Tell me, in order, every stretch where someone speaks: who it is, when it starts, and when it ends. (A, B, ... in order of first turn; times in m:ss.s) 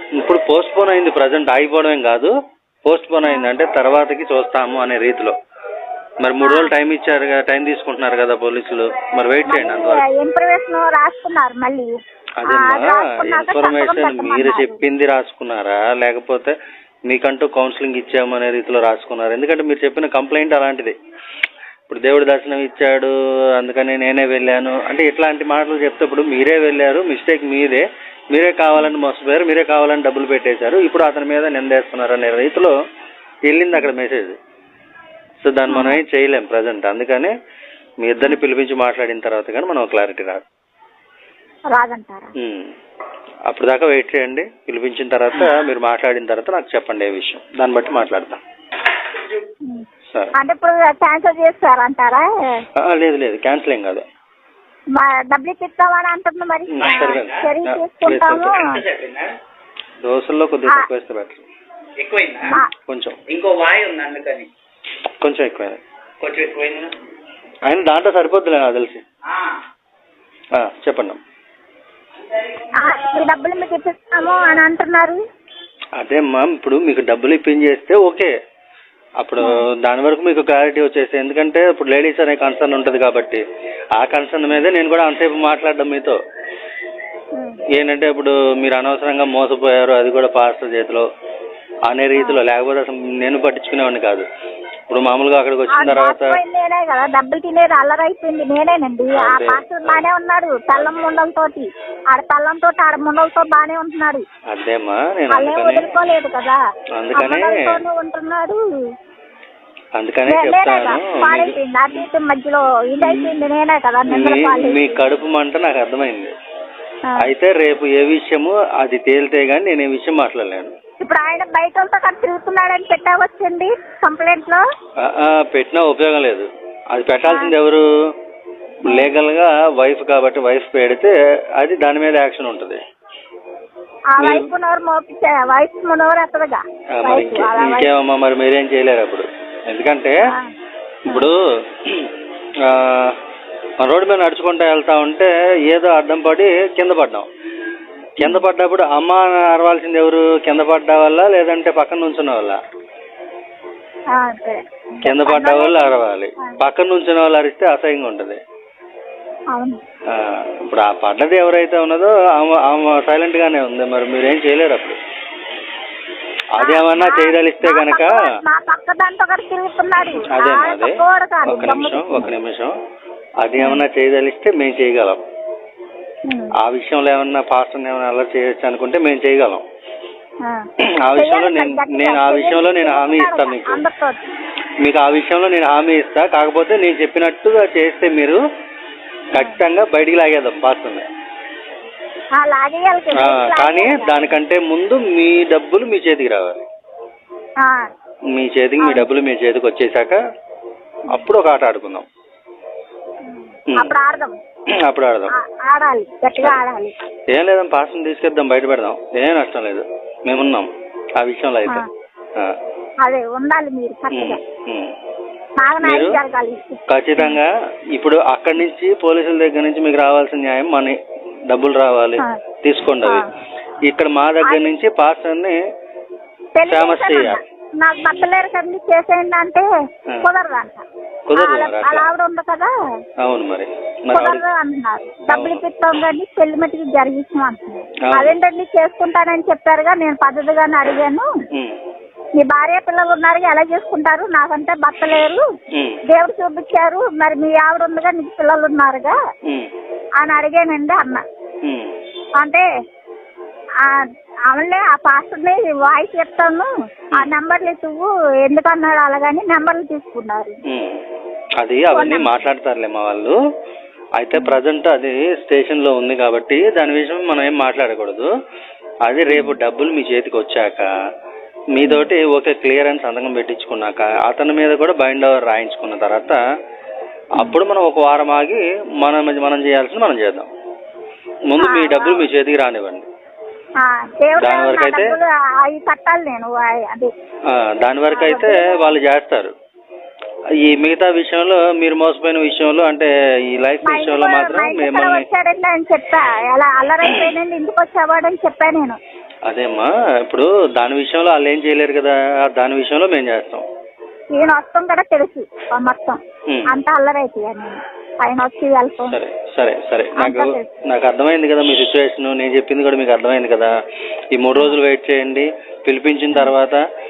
0:00.2-0:02.3 A
0:02.8-0:05.3 A
0:03.2-0:03.5 B
0:06.2-0:10.0 A
0:06.4-0:06.7 B
0:09.4-0:11.9 B
0:12.4-0:16.6 A
0:12.4-0:14.8 B
0:17.1-0:21.0 A
0:21.9-0:32.7 A
0:33.5-0:34.4 A
0:35.4-0:37.3 A
0:35.7-0:36.0 B
0:38.0-0:40.4 A
0:41.7-0:42.3 B
0:42.4-0:42.7 A
0:43.5-0:48.4 A
0:50.4-0:52.6 B
0:52.8-0:54.0 A
0:54.9-0:58.8 B
0:56.7-0:58.8 A
0:58.9-0:59.3 C
1:00.0-1:01.5 A
1:02.0-1:02.5 C
1:02.5-1:03.2 A
1:03.3-1:04.5 C
1:05.2-1:05.8 A
1:06.2-1:06.9 C
1:07.6-1:09.0 A
1:10.6-1:11.2 A
1:12.8-1:15.2 B
1:16.0-1:18.3 A
1:19.2-1:23.4 A
1:19.4-1:19.6 B
1:24.0-1:26.2 A
1:27.3-1:27.6 B
1:27.7-1:31.1 A
1:31.8-1:34.2 A
1:32.2-1:32.4 B
1:34.9-1:36.4 A
1:35.7-1:44.2 B
1:39.2-1:40.0 A
1:44.5-1:45.9 A
1:45.3-1:46.6 B
1:47.0-1:47.8 A
1:47.1-1:48.6 B
1:49.9-1:51.6 A
1:50.3-1:55.0 B
1:53.0-1:53.3 A
1:54.1-1:56.3 A
1:57.0-1:57.3 B
1:57.2-2:00.7 A
2:01.0-2:04.6 B
2:05.0-2:07.8 A
2:07.3-2:07.5 B
2:08.8-2:12.8 A
2:08.8-2:09.1 B
2:14.1-2:17.9 B
2:14.2-2:14.5 A
2:17.0-2:20.2 A
2:21.1-2:23.2 A
2:23.8-2:27.3 A
2:28.2-2:32.6 A
2:28.2-2:28.4 B
2:34.1-2:36.6 B
2:35.0-2:38.4 A
2:39.5-2:39.8 B
2:40.1-2:45.0 A
2:46.6-2:48.2 A
2:46.6-2:52.3 B
2:50.2-2:52.7 A
2:53.4-2:55.2 A
2:56.2-2:56.5 B
2:56.6-2:59.6 A
3:00.4-3:04.2 B
3:01.0-3:03.8 A
3:04.8-3:08.4 A
3:09.3-3:11.1 A
3:09.3-3:09.6 B
3:12.4-3:14.3 B
3:13.2-3:16.6 A
3:17.6-3:17.9 B
3:18.3-3:20.2 A
3:18.8-3:19.0 B
3:21.1-3:22.0 A
3:23.2-3:24.4 B
3:24.8-3:25.3 A
3:25.3-3:26.9 B
3:27.3-3:31.8 A
3:33.0-3:34.4 B
3:34.1-3:34.9 A
3:35.6-3:37.4 B
3:35.8-3:36.2 A
3:36.9-3:41.0 A
3:41.5-3:43.2 A
3:43.0-3:43.3 B
3:43.8-3:45.6 A
3:44.4-3:44.7 B
3:46.5-3:49.6 B
3:46.7-3:47.4 A
3:50.2-3:52.7 B
3:51.3-3:52.0 A
3:53.2-3:54.4 A
3:54.1-4:01.3 B
3:55.3-3:55.6 A
3:58.1-3:58.4 A
4:02.4-4:05.4 B
4:05.7-4:06.0 A
4:06.1-4:09.1 B
4:10.2-4:11.2 B
4:11.6-4:11.9 A
4:12.4-4:12.6 B
4:13.8-4:20.6 B
4:20.7-4:21.0 A
4:21.6-4:23.4 A
4:21.9-4:22.4 B
4:24.2-4:28.3 A
4:24.3-4:24.6 B
4:29.0-4:30.9 A
4:29.3-4:29.6 B
4:31.7-4:36.4 A
4:31.8-4:32.1 B
4:37.4-4:40.5 A
4:41.5-4:43.0 A
4:41.6-4:42.3 B
4:43.8-4:47.1 B
4:44.4-4:45.2 A
4:47.5-4:49.5 A
4:48.1-4:49.0 B
4:50.6-4:55.2 A
4:53.8-4:59.0 B
4:57.0-4:57.3 A
4:59.4-5:03.6 A
5:04.3-5:09.2 B
5:06.5-5:06.7 A
5:09.1-5:13.7 A
5:10.2-5:10.7 B
5:14.3-5:16.8 A